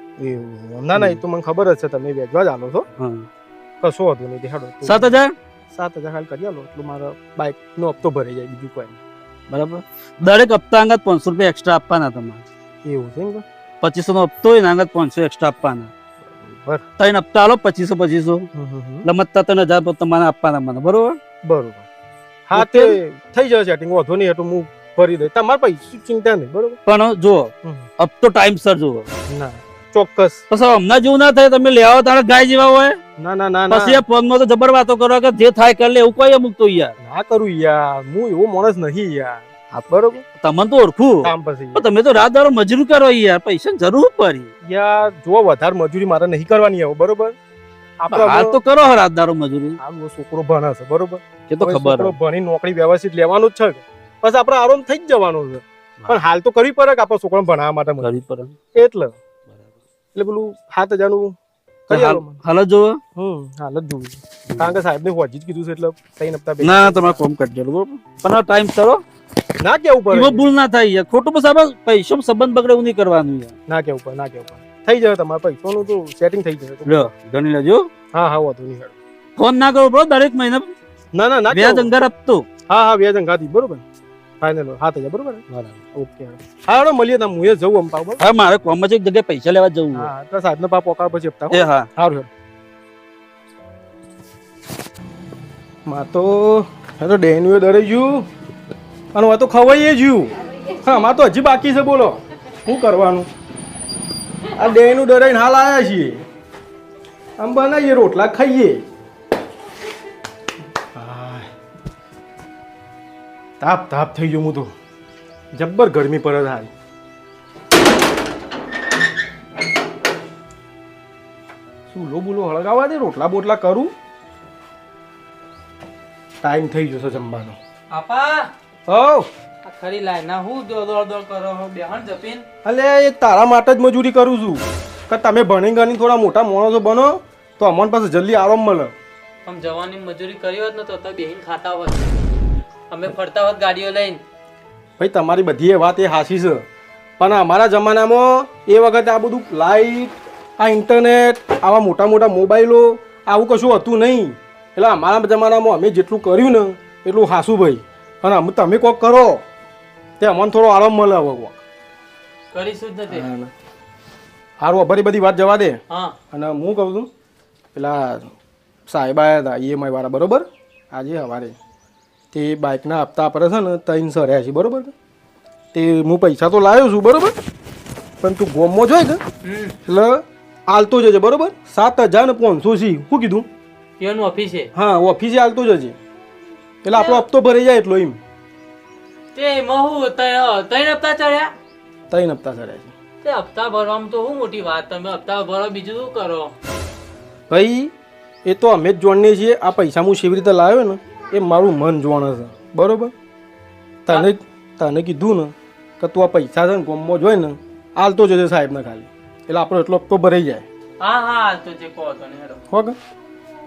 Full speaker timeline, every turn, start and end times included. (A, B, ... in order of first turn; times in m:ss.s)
0:00.2-0:02.9 A
0:03.0-0:03.3 B
0:03.8-0:05.2 A
0:04.8-0:05.3 B
0:05.7-0:09.0 A
0:09.5-0:12.4 B
0:12.8-0:13.4 A
0:13.8-0:15.9 B
0:16.4-0:16.8 A
0:17.0-0:18.5 B
0:18.5-0:19.1 A
0:19.0-0:21.2 B
0:21.4-0:21.9 A
0:22.5-0:26.8 A
0:22.6-0:23.0 B
0:26.9-0:29.1 B
0:29.3-0:30.4 A
0:30.5-0:33.0 B
0:33.2-0:34.0 A
0:33.7-0:36.9 B
0:37.0-0:40.2 A
0:39.7-0:44.5 B
0:41.2-0:41.8 A
0:44.6-0:47.4 A
0:48.0-0:48.6 A
0:48.1-0:49.8 B
0:49.8-0:58.2 A
0:51.5-0:52.1 B
0:58.0-0:58.5 B
0:58.8-0:59.2 A
1:00.1-1:01.4 A
1:01.9-1:02.4 A
1:01.9-1:03.0 B
1:03.2-1:07.2 A
1:04.5-1:04.8 B
1:06.6-1:09.0 B
1:09.6-1:10.5 A
1:10.1-1:13.5 B
1:13.7-1:17.1 A
1:16.8-1:17.9 B
1:18.1-1:18.9 A
1:19.4-1:20.7 B
1:21.1-1:21.9 A
1:21.5-1:22.5 B
1:22.7-1:23.8 A
1:24.4-1:28.2 A
1:28.2-1:30.1 B
1:29.9-1:32.3 A
1:31.5-1:31.9 B
1:35.9-1:38.3 A
1:39.1-1:43.3 A
1:44.6-1:46.2 A
1:47.4-1:48.8 A
1:51.0-1:51.5 A
1:53.6-1:54.7 A
1:55.5-1:56.7 A
2:01.9-2:03.9 A
2:06.4-2:07.6 A
2:07.9-2:08.5 C
2:08.9-2:09.3 A
2:09.6-2:12.4 C
2:12.6-2:18.9 A
2:19.4-2:22.0 C
2:22.9-2:24.2 C
2:25.0-2:26.6 A
2:27.2-2:39.4 A
2:40.2-2:41.6 A
2:42.5-2:43.3 C
2:43.1-2:43.5 A
2:44.6-2:45.8 A
2:46.3-2:47.1 A
2:47.7-2:48.3 A
2:48.9-2:51.6 A
2:52.3-2:54.9 A
2:55.7-2:57.3 A
2:58.2-2:59.2 A
2:59.4-2:59.7 C
2:59.8-3:03.5 A
3:04.0-3:04.7 C
3:04.8-3:06.0 A
3:06.8-3:08.2 A
3:06.9-3:07.2 C
3:09.4-3:11.5 C
3:12.1-3:12.9 A
3:13.2-3:16.5 C
3:17.5-3:17.9 A
3:18.4-3:23.1 A
3:24.1-3:30.7 A
3:31.0-3:32.6 C
3:32.7-3:33.0 A